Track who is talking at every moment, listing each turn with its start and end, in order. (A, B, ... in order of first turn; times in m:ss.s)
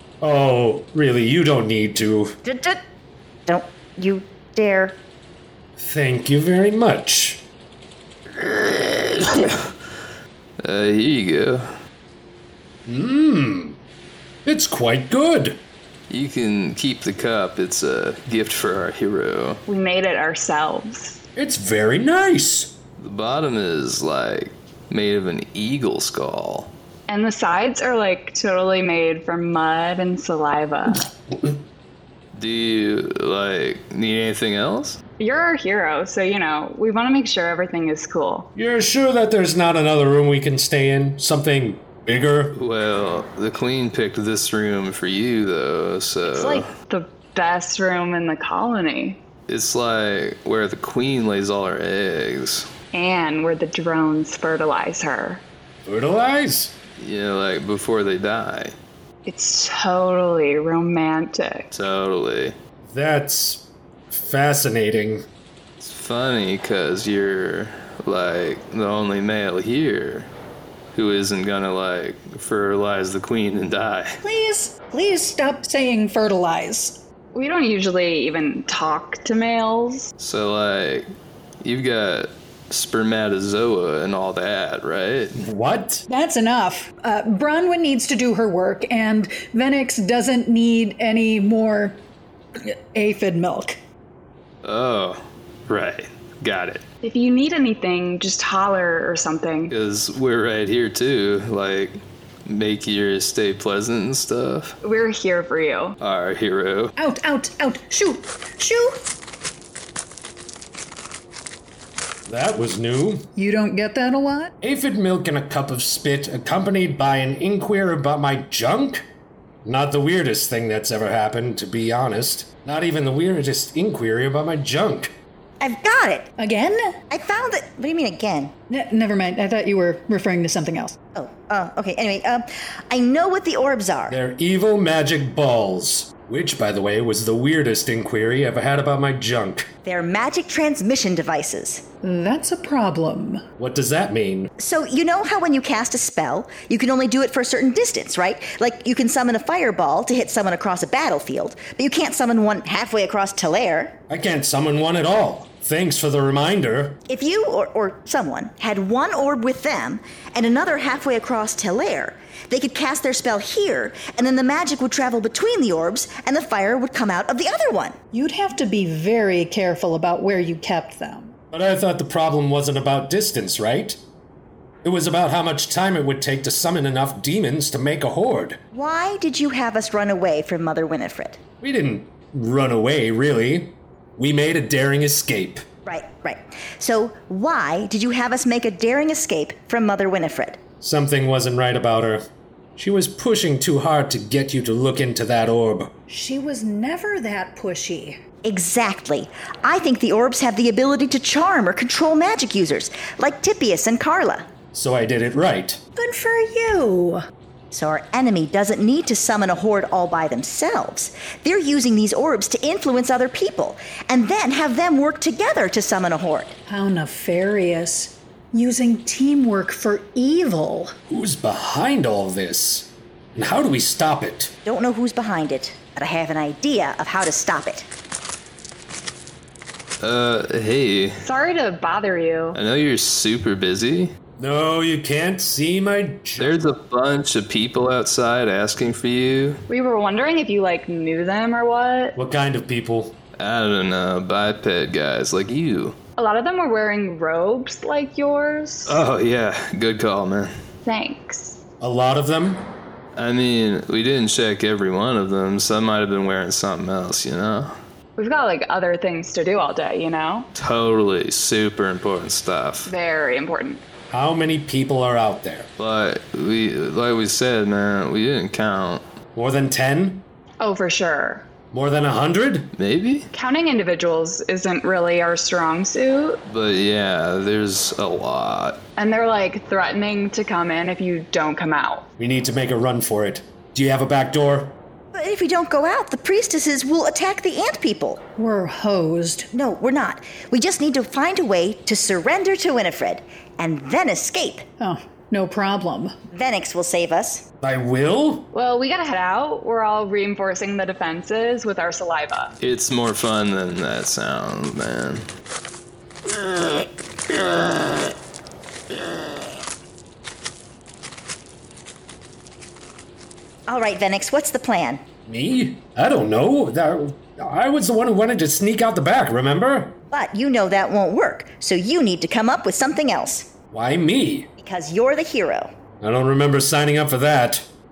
0:00.2-0:02.4 A
0:02.4-0:02.8 B
0:03.5-0:05.0 B
0:05.8-0:07.4 A
0:08.9-0:09.6 C
0:10.6-0:11.7 C
0:12.8-0:13.8 A
0:14.4-0:15.6 A
0:16.1-0:19.6 C
0:19.7-0:21.0 D
0:21.4-0:22.7 A
0:23.0-0:26.7 C
0:27.1-0:30.7 D
0:32.3-0:35.0 C
0:35.2-0:38.2 D
0:38.6-0:42.6 A
0:42.5-0:46.7 C
0:46.4-0:49.2 D
0:49.5-0:52.6 C
0:52.9-0:55.3 D
0:55.8-0:56.7 A
0:57.0-0:58.7 C
0:59.2-1:01.6 D
1:01.7-1:02.5 C
1:02.9-1:05.2 A
1:05.8-1:10.3 C
1:10.9-1:14.1 C
1:14.2-1:17.0 E
1:17.3-1:20.0 D
1:20.2-1:21.1 C
1:21.6-1:25.4 C
1:25.4-1:26.0 A
1:26.1-1:32.0 E
1:32.6-1:33.8 E
1:34.6-1:36.8 C
1:37.0-1:39.6 D
1:39.7-1:44.8 C
1:44.8-1:45.9 D
1:46.0-1:46.9 C
1:47.0-1:49.0 E
1:52.3-1:53.3 A
1:53.4-1:54.5 E
1:54.6-1:59.0 A
1:59.6-2:05.1 A
2:05.6-2:06.3 B
2:06.4-2:06.8 E
2:07.1-2:08.5 B
2:08.7-2:10.9 E
2:11.1-2:14.2 B
2:14.1-2:19.7 A
2:19.8-2:21.8 B
2:22.1-2:23.4 E
2:23.6-2:24.5 A
2:24.6-2:33.9 B
2:34.1-2:37.0 A
2:37.1-2:48.0 B
2:48.1-2:51.3 E
2:51.5-2:54.0 A
2:54.8-2:58.6 A
2:58.7-3:01.4 B
3:01.6-3:05.6 A
3:05.8-3:10.6 B
3:10.8-3:12.2 A
3:12.8-3:15.9 A
3:16.1-3:18.2 E
3:18.4-3:24.5 B
3:24.7-3:25.8 A
3:26.0-3:27.2 E
3:27.7-3:36.6 B
3:36.7-3:40.9 E
3:41.1-3:44.5 A
3:44.6-3:47.9 B
3:50.0-3:51.2 C
3:51.4-3:52.4 D
3:52.5-3:54.1 C
3:54.4-3:56.6 A
3:56.4-3:59.6 C
3:59.7-4:02.0 D
4:02.2-4:03.2 A
4:03.4-4:06.0 C
4:06.2-4:08.8 D
4:08.8-4:10.5 C
4:10.8-4:11.5 D
4:11.8-4:12.7 A
4:13.1-4:17.7 C
4:18.2-4:20.4 D
4:20.5-4:22.9 C
4:22.9-4:23.8 D
4:24.1-4:25.7 A
4:25.8-4:29.0 C
4:29.3-4:30.2 A
4:30.6-4:31.4 D
4:31.7-4:32.7 A
4:32.8-4:33.3 C
4:33.3-4:36.4 D
4:36.4-4:38.8 C
4:39.0-4:42.0 D
4:42.2-4:44.8 A
4:45.1-4:48.2 B
4:48.4-4:49.4 E
4:49.5-4:54.6 B
4:54.8-4:56.1 E
4:56.3-4:57.4 B
4:57.6-4:58.5 A
4:58.6-5:02.5 D
5:02.6-5:05.2 C
5:13.7-5:15.0 B
5:15.2-5:20.0 A
5:20.1-5:23.5 B
5:23.7-5:24.5 A
5:24.6-5:25.7 B
5:26.0-5:27.7 A